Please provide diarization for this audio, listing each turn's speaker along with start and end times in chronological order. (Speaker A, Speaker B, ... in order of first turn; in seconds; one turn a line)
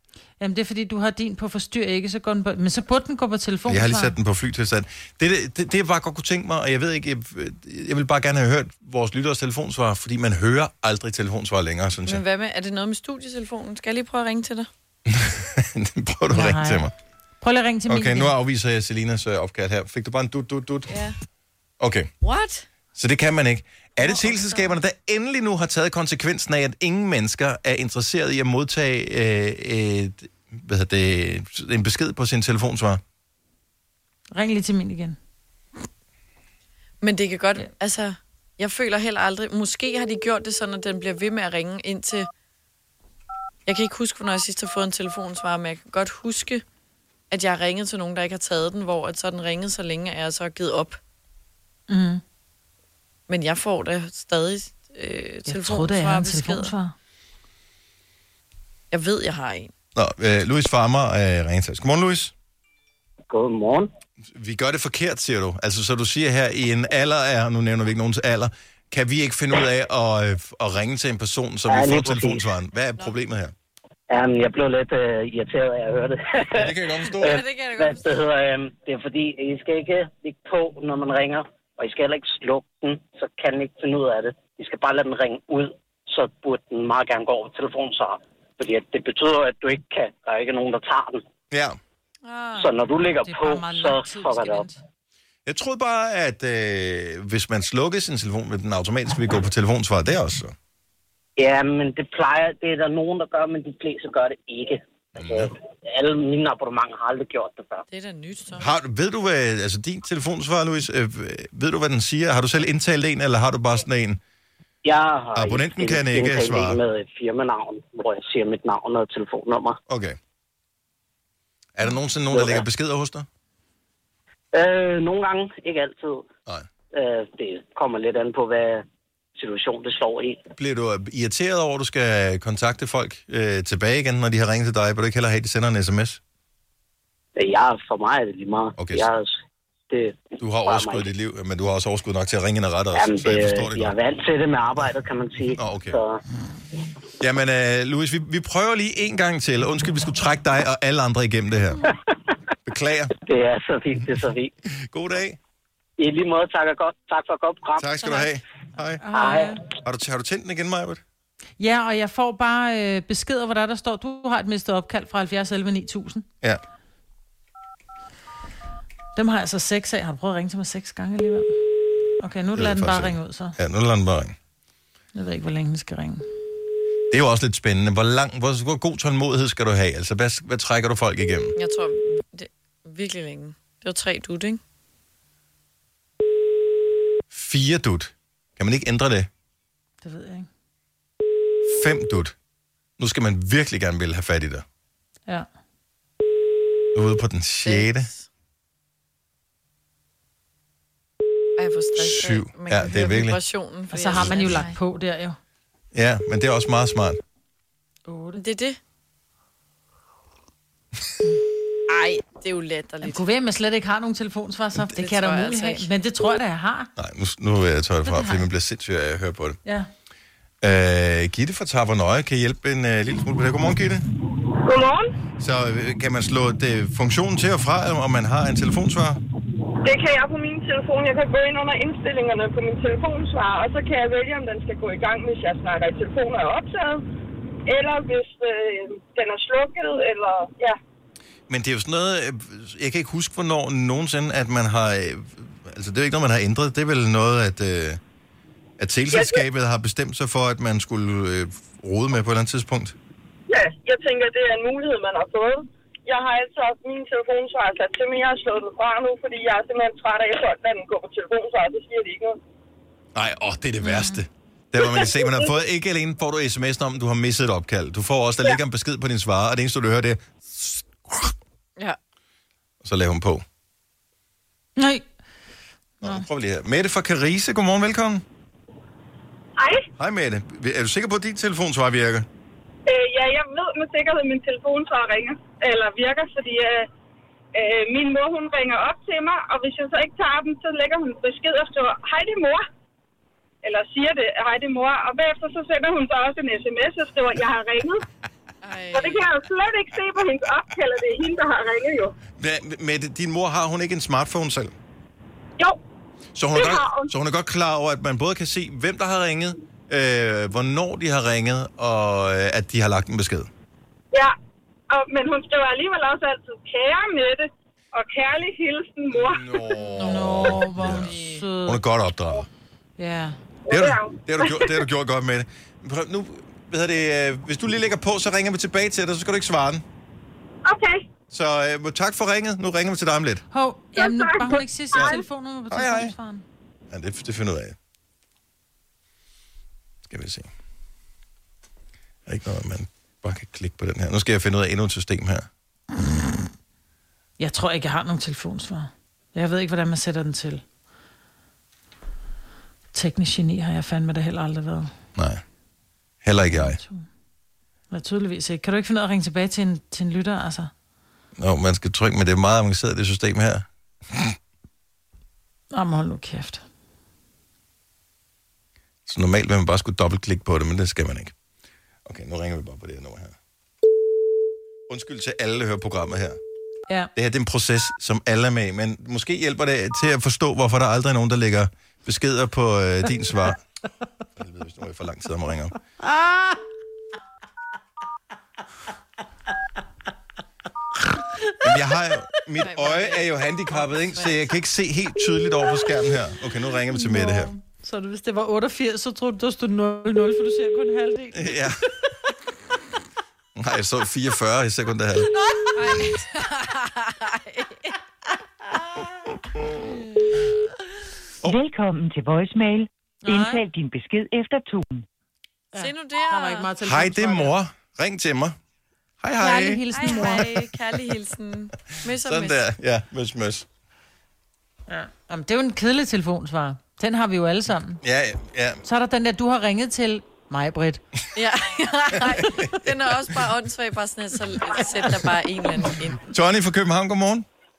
Speaker A: 0.4-4.2
Speaker B: 3.7-12.2
Speaker C: 12.1-14.7
Speaker B: 15.1-16.9
Speaker A: 16.3-16.9
Speaker A: 17.4-18.3
Speaker B: 17.9-21.0
Speaker C: 20.9-21.1
Speaker B: 21.8-22.1
Speaker C: 22.2-22.7
Speaker B: 23.0-33.0
Speaker A: 34.3-35.2
Speaker C: 37.0-42.3
Speaker C: 43.7-46.6
Speaker C: 47.3-51.0
Speaker A: 51.9-52.2
Speaker C: 53.3-56.7
Speaker A: 55.5-56.9
Speaker C: 58.9-59.7
Speaker B: 60.0-62.3
Speaker D: 63.3-63.9
Speaker B: 64.3-73.5
Speaker D: 71.7-72.4
Speaker D: 74.1-91.2
Speaker B: 76.5-77.4
Speaker C: 77.2-78.1
Speaker B: 91.5-91.8
Speaker C: 92.2-92.7
Speaker D: 92.6-94.7
Speaker A: 93.2-94.8
Speaker B: 95.5-100.5
Speaker D: 101.4-107.8
Speaker B: 105.2-105.5
Speaker C: 107.9-108.7
Speaker B: 108.6-114.2
Speaker D: 114.8-119.8
Speaker B: 115.3-116.8
Speaker B: 119.9-120.2
Speaker B: 121.8-123.3
Speaker D: 122.3-122.7
Speaker D: 124.5-126.3
Speaker D: 126.9-128.8
Speaker D: 129.4-130.4
Speaker B: 130.6-136.2
Speaker D: 137.4-139.4
Speaker B: 138.8-139.1
Speaker D: 139.9-141.1
Speaker B: 140.4-144.0
Speaker D: 142.9-146.2
Speaker B: 145.5-146.0
Speaker B: 147.2-151.8
Speaker B: 152.7-153.1
Speaker D: 153.2-154.5
Speaker B: 154.8-155.4
Speaker D: 156.0-157.9
Speaker B: 157.8-159.0
Speaker A: 159.0-159.6
Speaker D: 159.1-159.6
Speaker B: 159.8-161.0
Speaker A: 161.6-166.3
Speaker A: 169.2-171.6
Speaker A: 172.2-173.6
Speaker B: 172.6-174.4
Speaker A: 175.2-176.2
Speaker B: 177.1-181.5
Speaker C: 181.6-184.6
Speaker B: 187.3-189.3
Speaker A: 190.0-190.5
Speaker B: 191.6-192.3
Speaker B: 193.0-194.6
Speaker B: 196.9-198.1
Speaker C: 197.7-198.3
Speaker C: 201.6-204.8
Speaker B: 202.0-203.4
Speaker A: 203.9-205.4
Speaker B: 205.9-207.2
Speaker A: 208.1-208.4
Speaker C: 208.4-208.8
Speaker C: 211.9-213.2
Speaker A: 213.0-216.9
Speaker C: 214.8-215.9
Speaker B: 217.0-219.6
Speaker A: 218.1-218.4
Speaker A: 219.7-219.9
Speaker B: 220.6-224.1
Speaker E: 224.6-225.1
Speaker B: 225.4-229.2
Speaker E: 229.8-237.1
Speaker E: 237.7-240.8
Speaker B: 241.5-248.0
Speaker B: 248.8-252.9
Speaker E: 249.1-249.4
Speaker E: 253.5-262.4
Speaker B: 263.1-271.3
Speaker A: 263.8-264.2
Speaker E: 264.8-265.5
Speaker B: 272.8-273.4
Speaker A: 274.8-275.0
Speaker B: 276.0-278.2
Speaker E: 279.6-279.9
Speaker B: 280.0-282.3
Speaker E: 282.9-286.9
Speaker E: 287.5-292.6
Speaker E: 293.6-298.0
Speaker C: 298.6-299.2
Speaker E: 298.9-302.1
Speaker B: 302.4-304.8
Speaker B: 306.4-313.5
Speaker E: 306.5-307.1
Speaker E: 314.9-319.6
Speaker B: 319.1-321.1
Speaker C: 319.9-321.4
Speaker A: 320.0-321.8
Speaker B: 321.6-322.5
Speaker A: 323.0-323.4
Speaker E: 323.7-324.9
Speaker B: 323.7-329.8
Speaker E: 330.7-331.1
Speaker B: 331.3-333.4
Speaker A: 333.5-336.4
Speaker E: 334.0-335.2
Speaker B: 335.7-336.1
Speaker B: 336.9-337.8
Speaker B: 340.1-340.5
Speaker B: 342.3-345.5
Speaker A: 347.4-350.6
Speaker A: 352.9-354.9
Speaker B: 355.2-355.4
Speaker B: 356.2-356.8
Speaker A: 356.5-357.1
Speaker A: 357.9-360.7
Speaker B: 361.4-364.4
Speaker A: 365.7-366.6
Speaker B: 369.1-371.3
Speaker B: 372.1-373.4
Speaker B: 374.9-376.4
Speaker B: 377.1-383.6
Speaker B: 384.4-385.8
Speaker B: 391.6-397.5
Speaker C: 392.6-393.3
Speaker C: 393.8-394.4
Speaker A: 396.9-401.6
Speaker B: 401.3-401.8
Speaker B: 403.6-405.3
Speaker C: 405.8-407.9
Speaker F: 411.4-415.1
Speaker A: 413.2-413.6
Speaker A: 415.7-417.5
Speaker C: 415.8-416.7
Speaker B: 416.8-418.6
Speaker B: 419.2-420.5
Speaker A: 419.4-420.5
Speaker C: 419.9-422.6
Speaker B: 422.1-423.7
Speaker A: 424.9-428.0
Speaker B: 428.0-428.8
Speaker A: 428.8-431.0
Speaker C: 431.4-436.3
Speaker B: 432.3-432.6
Speaker B: 436.3-437.5